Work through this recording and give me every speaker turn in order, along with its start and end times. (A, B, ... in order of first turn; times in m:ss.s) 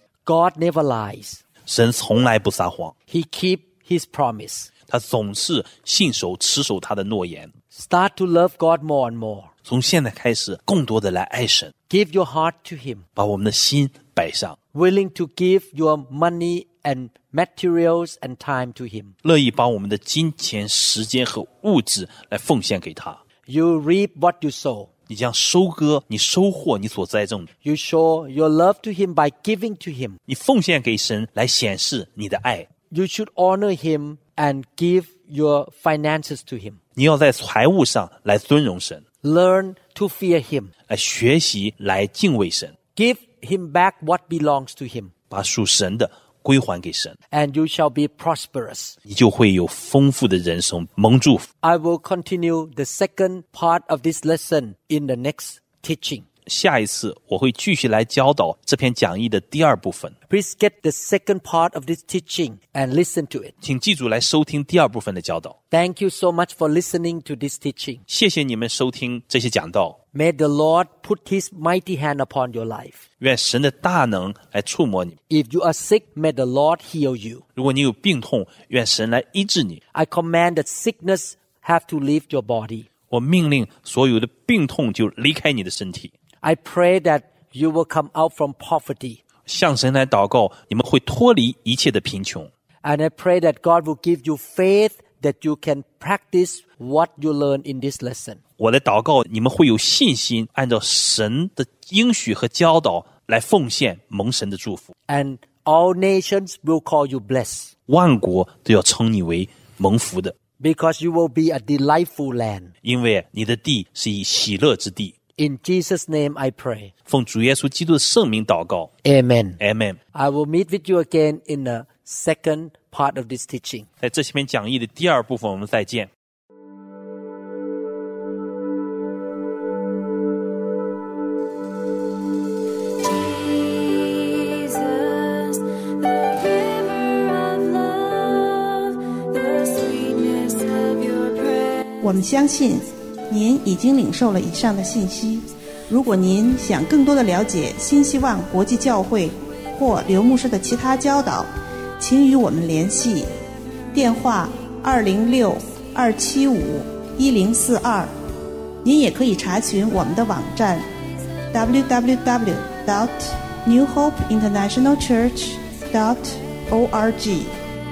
0:00.3-0:01.4 A
0:01.7-0:02.9 B
0:03.1-0:04.7 A
0:04.9-0:07.5 B
0:07.7-0:09.5 A
0:09.7-0:11.7 B
0:11.9-0:13.0 A
0:13.2-0:14.6 B
0:14.7-0:19.2 A
0:19.2-0:23.2 B
0:23.5-0:24.9 A
0:25.1-0:27.5 B
0:27.6-0:30.2 A
0:30.3-0:32.7 B
0:32.9-0:36.8 A
0:37.0-0:39.0 B
0:39.2-0:40.7 A
0:40.9-0:42.7 B
0:42.9-0:45.1 A
0:45.3-0:47.2 B
0:47.3-0:49.0 A
0:49.1-0:51.5 B
0:51.6-0:56.3 A
0:56.5-1:00.2 B
1:00.3-1:03.5 A
1:03.6-1:05.6 B
1:05.7-1:08.0 A
1:08.1-1:10.0 B
1:10.1-1:13.0 A
1:13.2-1:15.2 B
1:15.3-1:17.4 A
1:17.6-1:19.8 B
1:19.9-1:22.9 A
1:23.1-1:26.1 B
1:26.4-1:29.2 A
1:29.5-1:32.5 B
1:32.8-1:38.4 A
1:38.6-1:44.9 B
1:45.1-1:47.7 A
1:47.9-1:50.4 B
1:50.6-1:52.7 A
1:52.8-1:55.2 B
1:55.4-1:56.9 A
1:57.1-1:58.9 B
1:59.0-1:59.6 A
1:59.6-2:00.0 B
2:00.1-2:03.9 A
2:04.0-2:06.1 B
2:13.4-2:21.9 C
2:22.0-2:31.5 D
2:32.0-2:33.3 D
2:33.9-2:38.1 D
2:38.8-2:40.9 D
2:41.5-2:47.5 D